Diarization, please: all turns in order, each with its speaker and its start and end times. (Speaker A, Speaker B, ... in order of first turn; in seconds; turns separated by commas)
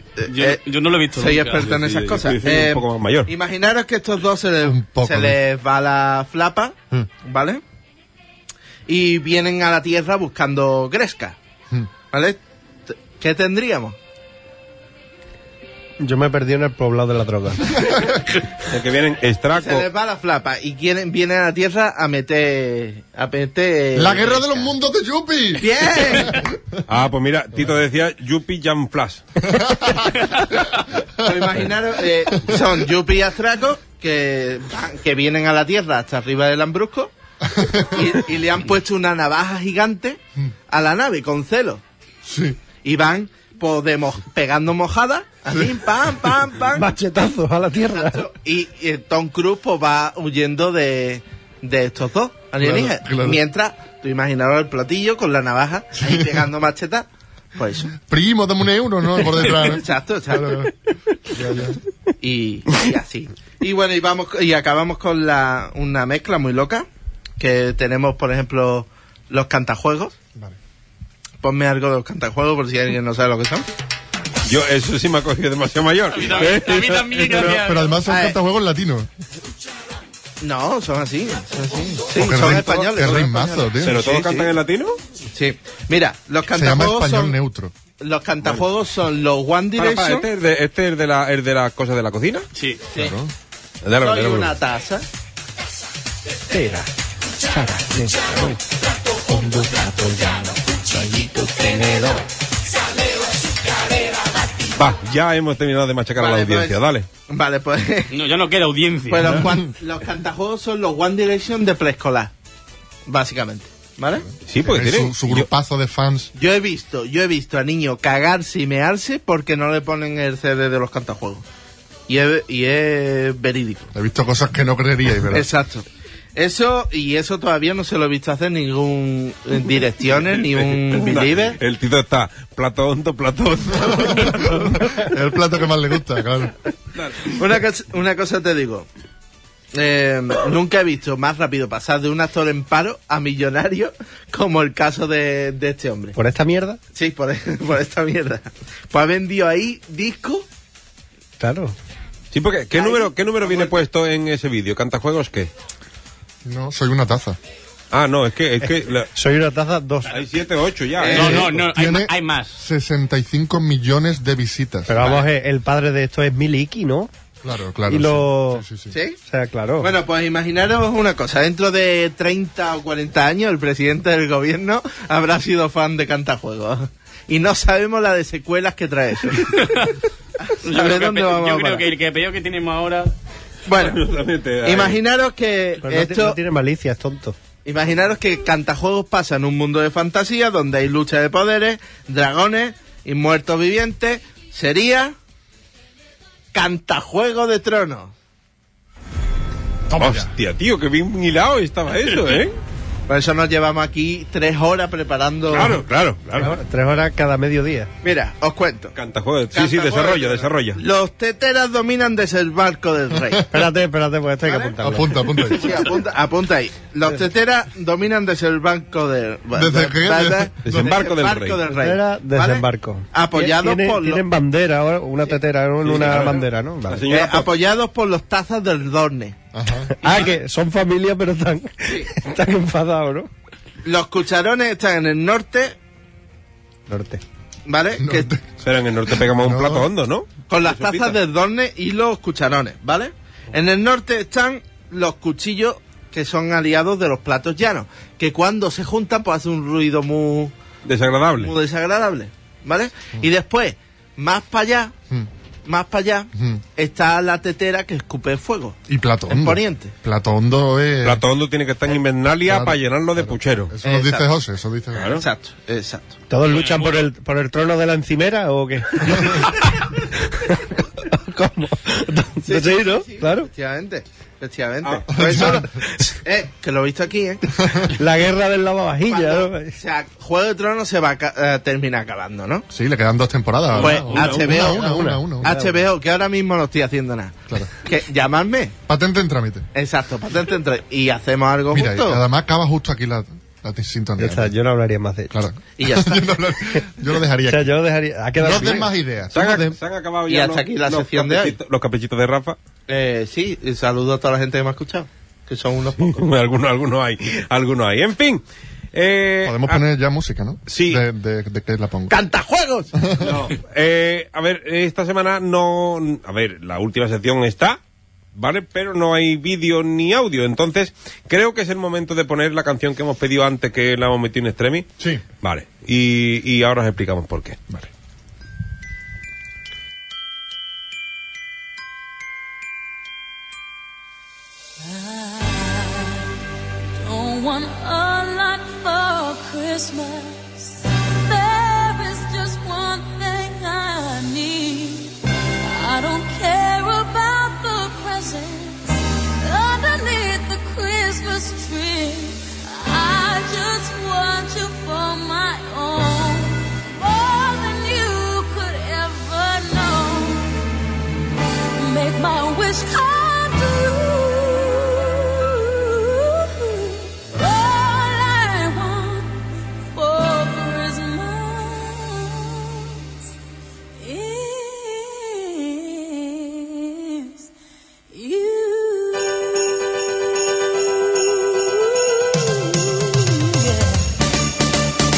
Speaker A: 0.2-0.6, Speaker B: 0.3-1.7, Speaker A: 1.1-7.6, Speaker C: 1.6-3.3, Speaker D: 4.6-5.4, Speaker A: 8.9-11.4, Speaker A: 12.1-14.0, Speaker E: 16.0-17.9, Speaker C: 18.6-19.9, Speaker A: 19.6-24.7, Speaker D: 23.9-26.8, Speaker A: 25.6-26.4, Speaker C: 26.9-29.2, Speaker D: 29.5-30.0, Speaker A: 31.2-37.1, Speaker D: 37.5-38.0, Speaker A: 37.8-41.8, Speaker D: 42.3-42.6, Speaker A: 42.8-46.9, Speaker E: 46.7-48.3, Speaker A: 47.9-57.9, Speaker D: 52.6-53.4, Speaker D: 58.0-60.7, Speaker A: 59.4-60.7, Speaker D: 61.3-61.8, Speaker A: 62.2-66.9, Speaker A: 67.4-70.2, Speaker A: 71.4-73.7, Speaker C: 74.5-77.5, Speaker B: 76.1-78.0, Speaker D: 77.1-79.1, Speaker A: 78.1-78.4, Speaker A: 80.4-84.5, Speaker D: 82.1-84.0, Speaker C: 82.4-82.7, Speaker C: 83.8-85.0, Speaker A: 85.3-87.4, Speaker D: 86.5-87.7, Speaker A: 88.0-90.3, Speaker C: 89.8-92.5, Speaker B: 92.5-92.9, Speaker D: 93.0-93.3, Speaker C: 93.8-94.5, Speaker A: 94.0-95.0, Speaker E: 96.5-98.6, Speaker E: 99.2-102.2, Speaker C: 104.8-107.1, Speaker A: 106.2-108.1, Speaker B: 108.1-109.4, Speaker A: 109.1-112.3, Speaker A: 113.1-114.3, Speaker C: 114.5-115.5, Speaker D: 114.6-116.3, Speaker A: 116.3-121.5, Speaker A: 122.1-123.9, Speaker D: 123.9-125.5, Speaker A: 125.3-131.6, Speaker C: 130.5-134.9, Speaker D: 133.8-136.6, Speaker C: 136.9-137.4, Speaker A: 137.2-138.9, Speaker A: 139.7-146.2, Speaker E: 146.2-146.8, Speaker A: 146.9-150.5, Speaker E: 151.4-151.8, Speaker C: 152.3-155.5, Speaker A: 152.7-153.8, Speaker D: 156.4-157.4, Speaker C: 157.9-159.1, Speaker E: 158.6-160.2, Speaker C: 160.1-161.5, Speaker A: 161.0-161.4, Speaker B: 161.1-162.6, Speaker D: 161.2-165.0, Speaker E: 164.9-167.1, Speaker D: 167.4-168.9, Speaker E: 167.9-168.7, Speaker A: 168.9-169.2, Speaker E: 169.3-169.9, Speaker A: 169.8-179.7, Speaker B: 179.4-180.0, Speaker A: 180.4-181.9, Speaker B: 180.6-183.1, Speaker A: 183.7-184.0, Speaker C: 183.7-185.0, Speaker A: 184.6-186.4, Speaker E: 185.8-187.4, Speaker A: 187.7-195.2, Speaker A: 196.5-198.1, Speaker D: 199.9-200.3, Speaker C: 199.9-202.6, Speaker A: 203.1-205.8, Speaker C: 205.5-206.6, Speaker E: 206.4-207.9, Speaker A: 208.0-208.9, Speaker C: 208.9-210.8, Speaker A: 209.5-213.5, Speaker E: 213.5-215.2, Speaker A: 214.4-214.8, Speaker D: 214.8-215.9, Speaker A: 215.4-224.2, Speaker D: 219.5-220.9, Speaker C: 220.7-221.6, Speaker E: 221.7-227.1, Speaker C: 225.8-227.5, Speaker A: 226.0-226.3, Speaker A: 227.1-229.4, Speaker D: 229.5-229.9, Speaker E: 230.0-233.3, Speaker A: 230.0-230.4, Speaker A: 231.8-232.1, Speaker A: 233.8-235.8, Speaker E: 236.9-237.2, Speaker A: 237.7-238.3, Speaker D: 238.0-238.4, Speaker C: 238.6-241.2, Speaker D: 239.3-239.9, Speaker A: 240.5-250.5, Speaker C: 250.8-251.5, Speaker A: 251.4-254.9, Speaker A: 255.7-259.9, Speaker D: 256.4-256.6, Speaker D: 258.9-261.2, Speaker C: 261.0-263.7, Speaker D: 262.4-265.2, Speaker A: 263.8-264.3, Speaker C: 264.9-265.2, Speaker A: 265.1-266.2, Speaker E: 266.3-273.5, Speaker B: 266.5-267.1, Speaker A: 272.4-275.7, Speaker C: 274.8-275.5, Speaker D: 275.1-275.7, Speaker A: 276.2-277.5, Speaker D: 277.6-277.9, Speaker E: 277.9-279.8, Speaker A: 279.0-282.7, Speaker D: 282.7-285.5, Speaker C: 283.7-284.7, Speaker A: 283.8-288.8, Speaker E: 284.4-285.8, Speaker D: 288.9-289.7, Speaker A: 289.7-292.2, Speaker D: 291.7-294.5, Speaker E: 294.2-295.4, Speaker D: 295.3-297.8, Speaker A: 295.8-296.4, Speaker E: 297.5-298.9, Speaker D: 298.4-299.8, Speaker C: 299.3-302.6, Speaker A: 300.3-301.6, Speaker A: 302.9-306.2, Speaker C: 306.0-308.4, Speaker C: 308.9-309.8, Speaker D: 309.4-312.2, Speaker C: 310.7-311.0, Speaker A: 312.1-312.9, Speaker D: 313.0-313.3, Speaker C: 313.2-317.8, Speaker C: 318.4-324.9, Speaker C: 325.4-327.6, Speaker F: 334.8-336.3, Speaker F: 336.9-360.6, Speaker F: 361.8-373.0, Speaker F: 374.0-377.5, Speaker F: 378.1-384.1